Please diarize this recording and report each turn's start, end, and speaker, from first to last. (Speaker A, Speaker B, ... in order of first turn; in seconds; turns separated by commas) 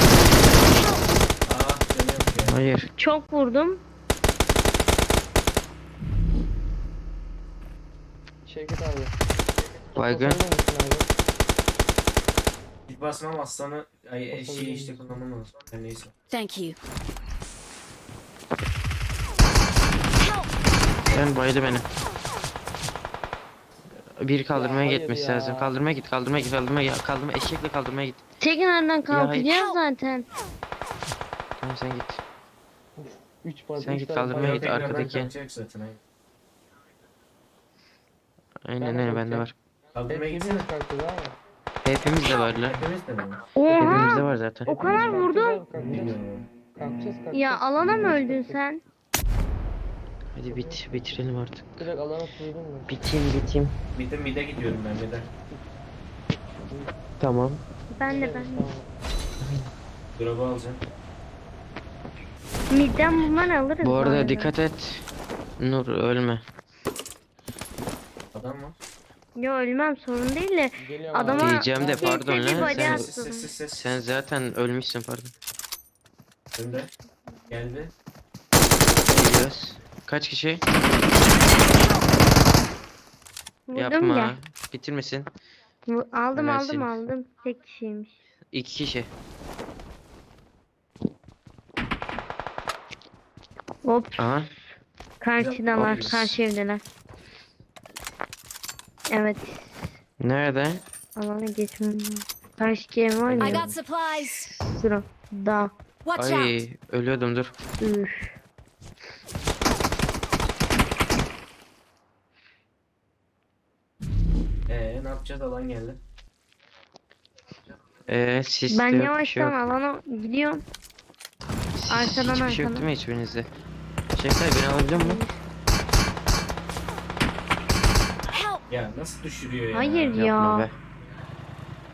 Speaker A: 1.5-2.7, Speaker B: 2.5-2.9, Speaker C: 2.9-3.8, Speaker D: 8.5-9.2, Speaker B: 9.9-10.4, Speaker D: 10.0-11.1, Speaker A: 12.9-16.1, Speaker D: 14.3-15.2, Speaker E: 16.3-16.8, Speaker B: 21.1-21.9, Speaker B: 24.2-28.2, Speaker D: 24.5-25.7, Speaker C: 28.4-30.3, Speaker B: 29.1-29.5, Speaker B: 31.6-32.2, Speaker D: 33.0-35.1, Speaker B: 33.8-35.3, Speaker A: 34.3-36.0, Speaker B: 38.6-39.5, Speaker D: 38.8-39.5, Speaker A: 39.9-40.7, Speaker D: 40.1-41.4, Speaker B: 41.8-42.8, Speaker A: 42.6-43.5, Speaker C: 43.5-45.6, Speaker B: 43.7-44.8, Speaker D: 44.7-46.2, Speaker A: 45.8-46.5, Speaker D: 46.7-48.6, Speaker C: 47.3-48.8, Speaker B: 50.3-51.9, Speaker D: 50.5-51.2, Speaker D: 51.8-52.9, Speaker B: 52.9-53.8, Speaker A: 54.0-55.3, Speaker D: 56.3-57.0, Speaker B: 57.2-57.6, Speaker C: 57.9-58.7, Speaker D: 58.1-58.9, Speaker B: 59.4-59.7, Speaker A: 60.2-60.8, Speaker C: 62.7-64.5, Speaker B: 63.8-65.0, Speaker B: 65.6-66.4, Speaker A: 68.3-68.8, Speaker C: 69.4-73.5, Speaker D: 70.8-72.4, Speaker B: 71.3-73.1, Speaker A: 72.4-74.0, Speaker B: 73.7-75.3, Speaker A: 76.5-76.9, Speaker A: 77.5-77.9, Speaker B: 79.1-80.6, Speaker C: 83.7-84.3, Speaker B: 83.8-85.3, Speaker C: 85.9-88.2, Speaker B: 86.3-87.0, Speaker B: 88.5-89.1, Speaker C: 93.8-94.2, Speaker B: 94.2-94.5, Speaker C: 95.2-96.8, Speaker A: 95.4-96.4, Speaker C: 99.1-99.8, Speaker B: 100.2-100.8, Speaker C: 101.2-103.6, Speaker A: 103.2-103.8, Speaker E: 103.4-104.5, Speaker C: 104.3-105.7, Speaker E: 106.0-106.6, Speaker B: 106.2-107.5, Speaker C: 107.8-108.3, Speaker A: 114.7-116.0, Speaker B: 118.1-119.6, Speaker C: 118.7-120.6, Speaker B: 121.8-123.5, Speaker C: 121.9-122.9, Speaker B: 124.1-125.2, Speaker C: 124.9-125.4, Speaker E: 128.3-128.6, Speaker A: 128.7-130.2, Speaker C: 129.7-130.7, Speaker B: 130.1-130.8